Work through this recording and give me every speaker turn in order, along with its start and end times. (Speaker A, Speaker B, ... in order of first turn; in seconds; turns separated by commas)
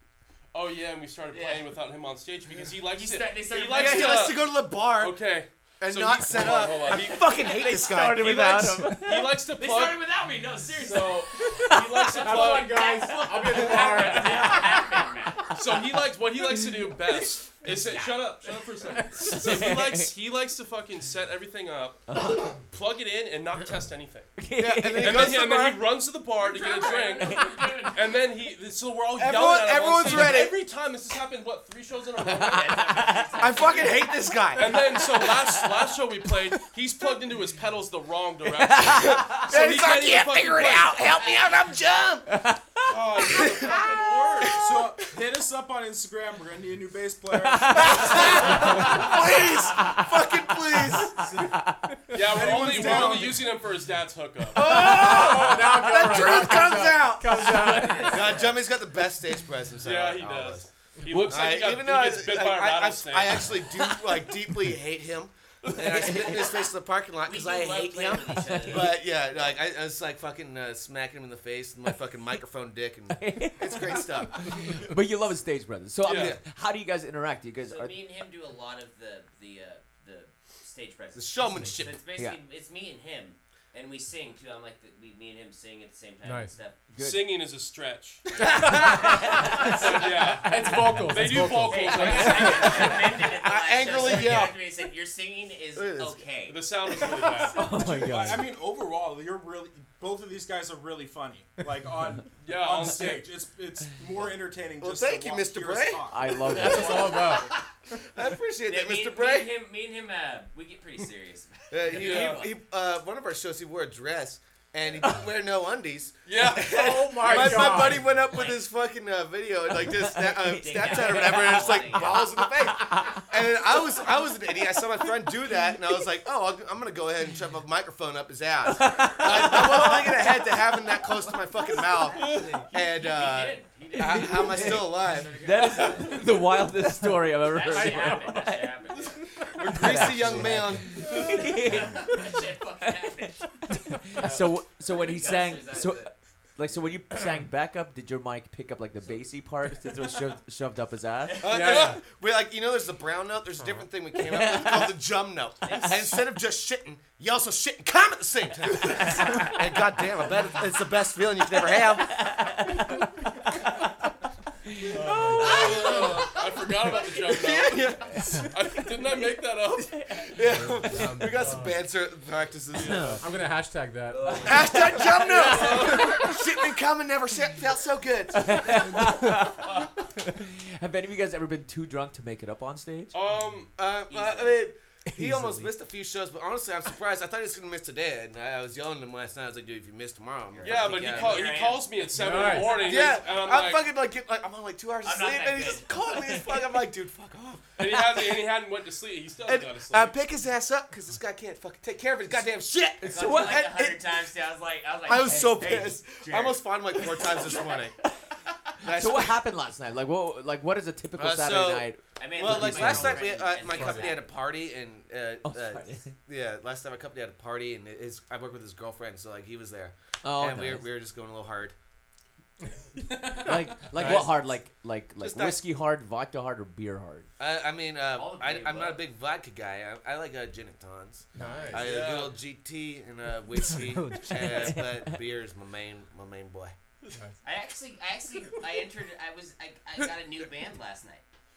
Speaker A: 0.5-7.3, Speaker B: 1.3-1.7, Speaker B: 2.9-4.3, Speaker C: 3.7-5.2, Speaker C: 5.8-9.0, Speaker D: 6.9-9.3, Speaker A: 9.0-10.1, Speaker B: 9.5-15.5, Speaker A: 10.7-12.9, Speaker D: 11.4-11.9, Speaker E: 12.2-14.8, Speaker D: 13.1-14.8, Speaker A: 15.5-24.3, Speaker D: 16.6-16.9, Speaker B: 17.6-18.4, Speaker D: 19.2-20.1, Speaker D: 22.1-22.5, Speaker D: 24.4-25.4, Speaker C: 24.6-25.8, Speaker A: 25.0-33.9, Speaker B: 26.4-28.1, Speaker D: 27.2-27.9, Speaker C: 29.1-30.6, Speaker D: 32.2-33.9, Speaker B: 32.5-34.0, Speaker C: 33.4-35.0, Speaker A: 34.5-41.0, Speaker D: 34.6-36.0, Speaker D: 38.5-39.4, Speaker C: 38.9-42.3, Speaker B: 41.1-41.5, Speaker D: 42.3-42.9, Speaker A: 42.8-44.6, Speaker C: 43.2-45.1, Speaker F: 44.5-48.2, Speaker D: 47.3-51.9, Speaker C: 47.7-51.3, Speaker F: 51.0-51.6, Speaker A: 52.1-54.7, Speaker F: 52.3-53.5, Speaker C: 52.3-53.4, Speaker C: 54.5-74.9, Speaker E: 54.6-58.4, Speaker D: 54.7-55.5, Speaker B: 57.4-58.6, Speaker A: 59.8-63.6, Speaker A: 65.7-66.1, Speaker D: 65.8-66.5, Speaker B: 67.2-69.5, Speaker D: 68.4-68.9, Speaker D: 73.1-78.0, Speaker A: 76.0-76.4, Speaker C: 76.0-76.4, Speaker B: 77.6-86.8, Speaker C: 81.1-82.0, Speaker E: 86.2-86.5, Speaker D: 86.9-87.3, Speaker A: 87.0-93.1, Speaker B: 88.4-90.2, Speaker C: 88.4-88.7, Speaker E: 90.4-92.6, Speaker B: 91.7-96.6, Speaker D: 92.2-92.6, Speaker C: 92.5-94.6, Speaker C: 95.8-96.2, Speaker A: 96.5-97.6, Speaker D: 97.5-98.5, Speaker F: 97.5-107.3, Speaker A: 102.4-103.3, Speaker C: 104.8-106.1, Speaker D: 106.1-107.2, Speaker E: 106.5-107.5, Speaker B: 106.6-107.6, Speaker C: 108.0-109.5, Speaker B: 108.7-112.5, Speaker C: 111.7-135.3, Speaker A: 111.9-112.4, Speaker A: 116.2-117.6, Speaker E: 116.6-118.1, Speaker B: 118.2-118.6, Speaker D: 119.7-123.6, Speaker B: 120.6-122.2, Speaker D: 128.7-130.2, Speaker B: 131.9-136.3, Speaker A: 132.2-132.6, Speaker D: 134.1-138.7, Speaker B: 137.4-139.2, Speaker E: 137.7-138.3, Speaker C: 139.5-141.3, Speaker D: 139.6-151.4, Speaker B: 141.2-143.5, Speaker A: 144.2-144.5, Speaker B: 144.8-146.1, Speaker B: 151.3-151.8, Speaker C: 151.4-162.4, Speaker E: 151.5-152.0, Speaker D: 154.2-155.0, Speaker B: 155.6-156.0, Speaker D: 158.9-159.5, Speaker D: 161.5-163.9, Speaker D: 164.7-166.4, Speaker E: 164.9-165.9, Speaker A: 165.3-170.1, Speaker B: 165.8-166.1, Speaker C: 167.3-168.4, Speaker D: 169.0-170.3, Speaker C: 170.2-173.2, Speaker E: 170.6-171.8, Speaker A: 172.7-173.2, Speaker D: 172.8-173.2, Speaker E: 173.2-174.5, Speaker B: 174.1-175.0, Speaker D: 174.2-176.3, Speaker C: 174.4-179.1, Speaker A: 175.2-176.3, Speaker D: 178.3-183.1, Speaker A: 183.1-183.7, Speaker C: 183.8-191.5, Speaker B: 184.1-184.6, Speaker D: 185.1-185.7, Speaker B: 190.5-193.1, Speaker A: 190.6-193.9, Speaker E: 192.1-192.9, Speaker C: 192.7-198.2, Speaker B: 195.0-196.4, Speaker A: 197.8-200.2, Speaker C: 199.4-204.0, Speaker D: 203.0-203.7, Speaker B: 203.0-207.5, Speaker C: 205.0-208.0, Speaker D: 205.3-205.9, Speaker C: 208.8-209.4, Speaker D: 208.8-213.3, Speaker C: 211.2-221.7, Speaker B: 212.2-214.3, Speaker E: 213.7-214.0, Speaker D: 215.4-216.1, Speaker D: 220.2-220.9, Speaker E: 223.0-223.5, Speaker D: 223.3-227.3, Speaker A: 223.9-224.3, Speaker C: 223.9-224.4, Speaker C: 225.2-225.6, Speaker C: 227.4-236.7, Speaker B: 228.1-229.0, Speaker E: 231.3-231.9, Speaker D: 231.4-231.8, Speaker A: 231.7-232.4, Speaker D: 234.2-235.2, Speaker B: 237.4-241.2